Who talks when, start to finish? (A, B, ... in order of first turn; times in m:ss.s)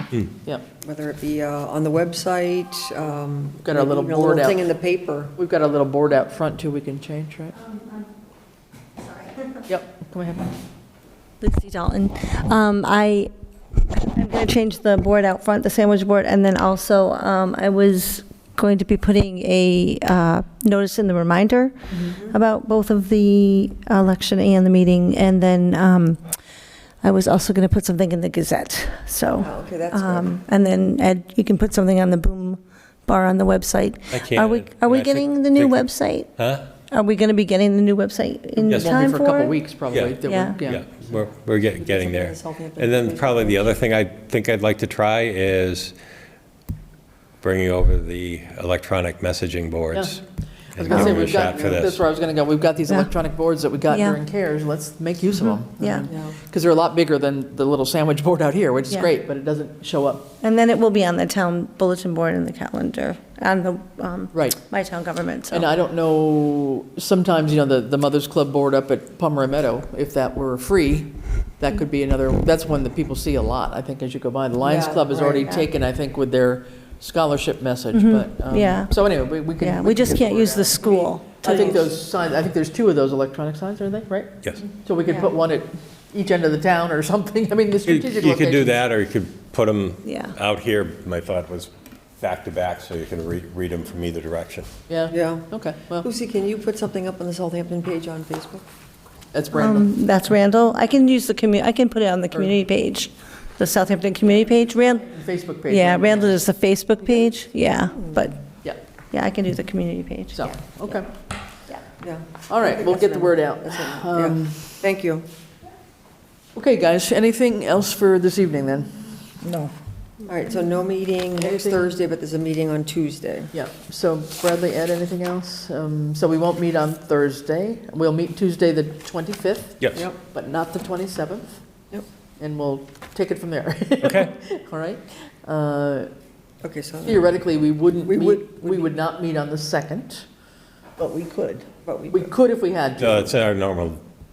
0:00.8-0:05.3 A
0:03.6-0:04.7 B
0:05.4-0:07.6 B
0:07.6-0:07.9 C
0:09.1-0:09.4 C
0:09.7-0:10.5 B
0:11.4-0:13.3 C
0:13.9-0:26.2 C
0:27.0-0:36.3 C
0:29.4-0:30.3 A
0:34.1-0:35.8 D
0:36.4-0:36.7 D
0:36.9-0:39.6 C
0:38.6-0:40.8 B
0:40.2-0:40.6 C
0:40.7-0:46.0 D
0:41.8-0:43.6 A
0:47.4-0:50.2 D
0:50.7-1:00.3 B
0:50.8-0:52.0 D
0:50.9-0:51.8 A
0:53.9-0:54.2 C
0:55.4-0:56.1 C
0:55.8-0:56.4 A
1:00.4-1:05.7 C
1:04.3-1:04.6 B
1:05.5-1:24.3 B
1:14.6-1:15.5 A
1:17.9-1:19.0 C
1:19.6-1:21.8 C
1:21.4-1:21.9 A
1:24.8-1:28.8 B
1:25.0-1:25.3 A
1:27.9-1:34.7 D
1:30.0-1:30.3 C
1:34.9-1:36.1 B
1:35.1-1:35.5 A
1:36.0-1:38.6 A
1:39.3-1:39.9 B
1:39.5-1:45.0 C
1:44.8-1:46.4 B
1:45.7-1:48.4 C
1:49.1-1:50.6 C
1:50.3-1:51.1 B
1:52.0-1:55.2 A
1:52.5-1:54.7 B
1:56.6-1:59.1 B
2:00.2-2:03.5 A
2:01.4-2:01.8 B
2:03.5-2:11.6 B
2:12.4-2:16.1 B
2:14.0-2:14.3 D
2:16.6-2:17.3 A
2:17.0-2:20.2 B
2:18.1-2:18.9 A
2:21.0-2:23.3 B
2:21.8-2:22.3 A
2:23.0-2:24.0 D